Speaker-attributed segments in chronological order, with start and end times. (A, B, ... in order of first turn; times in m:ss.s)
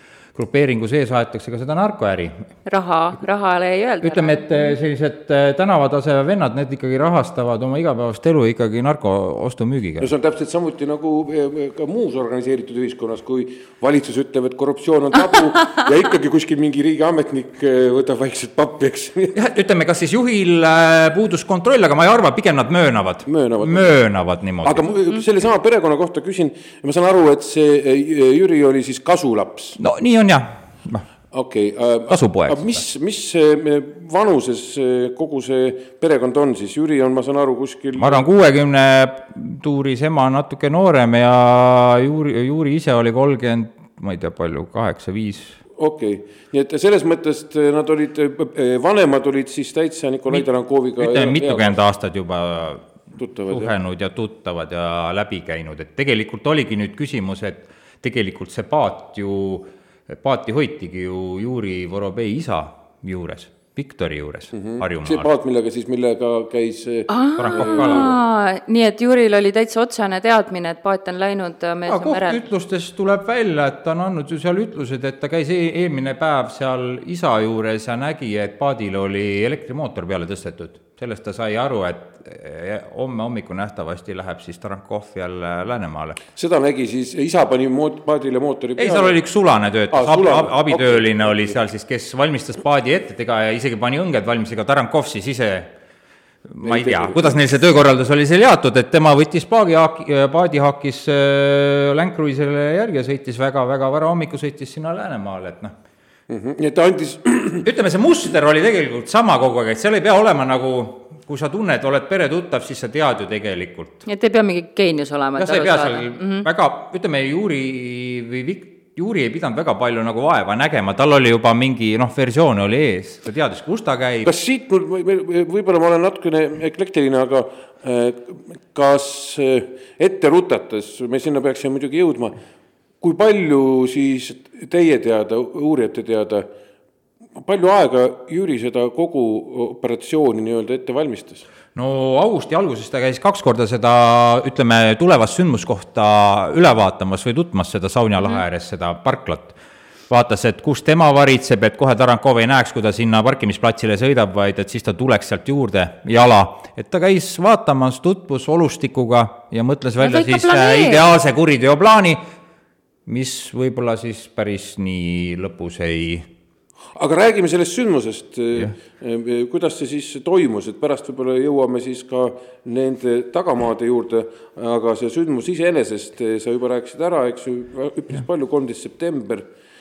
0:00.3-0:02.5 A
0:02.6-0:04.8 B
0:04.0-0:10.1 A
0:10.0-0:19.4 C
0:19.3-0:24.9 A
0:23.3-0:24.0 C
0:24.6-0:29.8 C
0:29.8-0:31.0 A
0:31.3-0:38.2 C
0:32.1-0:32.8 A
0:38.0-0:45.6 A
0:45.8-0:51.8 C
0:51.0-0:52.9 A
0:53.2-0:53.7 C
0:53.5-1:05.3 A
1:04.5-1:08.1 C
1:07.1-1:12.4 B
1:07.4-1:08.1 A
1:11.9-1:26.2 A
1:26.3-1:29.2 C
1:28.8-1:35.7 A
1:29.9-1:31.6 C
1:36.5-1:45.7 A
1:36.6-1:37.4 C
1:46.3-1:47.6 C
1:47.6-1:54.0 A
1:54.0-1:56.4 B
1:55.4-2:04.3 A
2:04.2-2:12.4 C
2:13.0-2:16.5 C
2:17.4-2:21.4 C
2:21.7-2:29.5 A
2:30.1-2:42.2 A
2:40.0-2:41.0 B
2:43.0-2:46.3 A
2:46.9-2:59.5 C